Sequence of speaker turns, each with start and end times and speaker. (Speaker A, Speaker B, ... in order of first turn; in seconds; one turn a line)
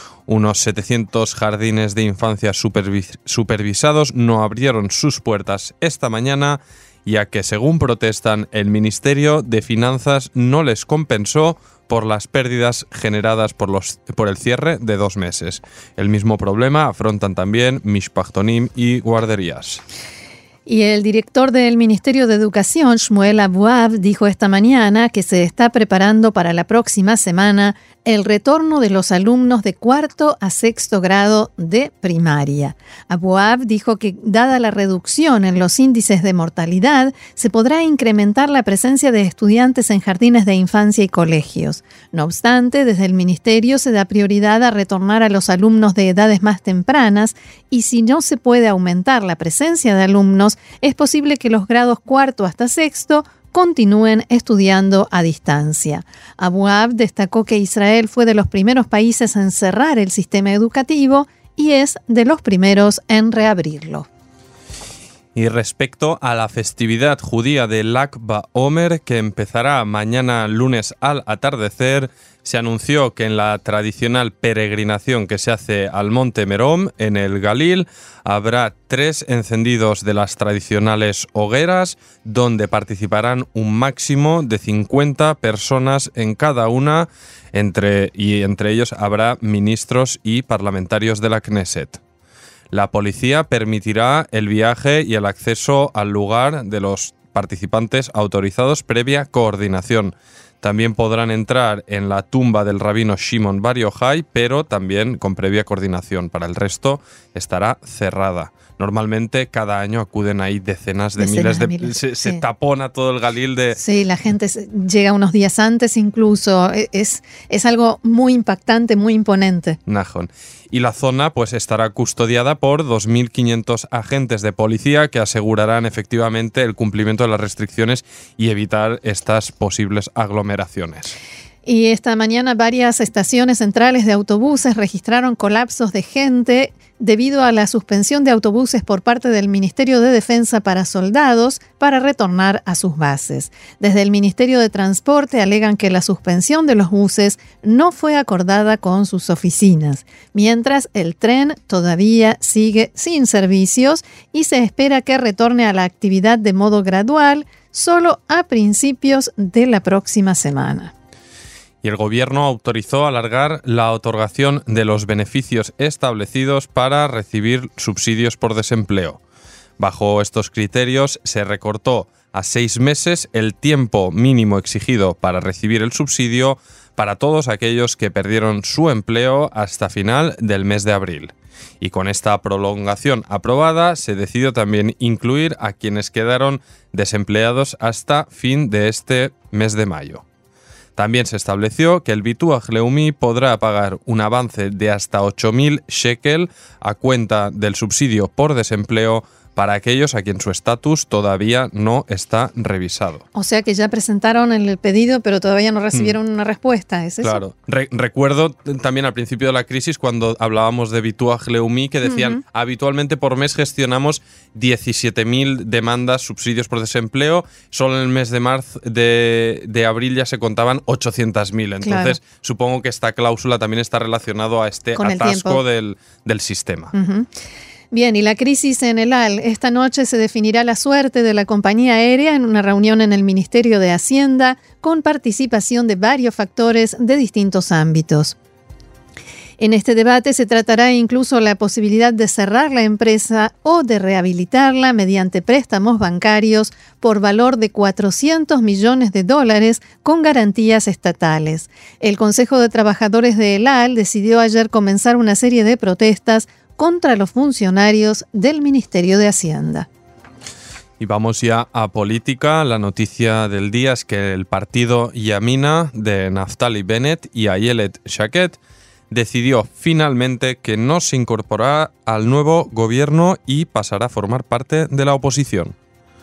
Speaker A: 0.3-19.8
Speaker B: 20.7-64.1
Speaker A: 65.3-92.0
Speaker A: 92.7-113.8
Speaker B: 111.2-112.4
Speaker B: 113.8-119.8
Speaker A: 119.9-131.1
Speaker B: 131.7-160.9
Speaker A: 161.8-169.2
Speaker A: 169.8-190.2
Speaker A: 191.0-203.2
Speaker B: 203.3-207.4
Speaker A: 207.2-226.9
Speaker B: 212.0-212.4
Speaker B: 221.8-222.2
Speaker B: 225.0-225.6
Speaker B: 226.9-227.3
Speaker B: 227.9-238.4
Speaker B: 239.6-259.9
Speaker A: 261.0-268.6
Speaker A: 269.1-275.8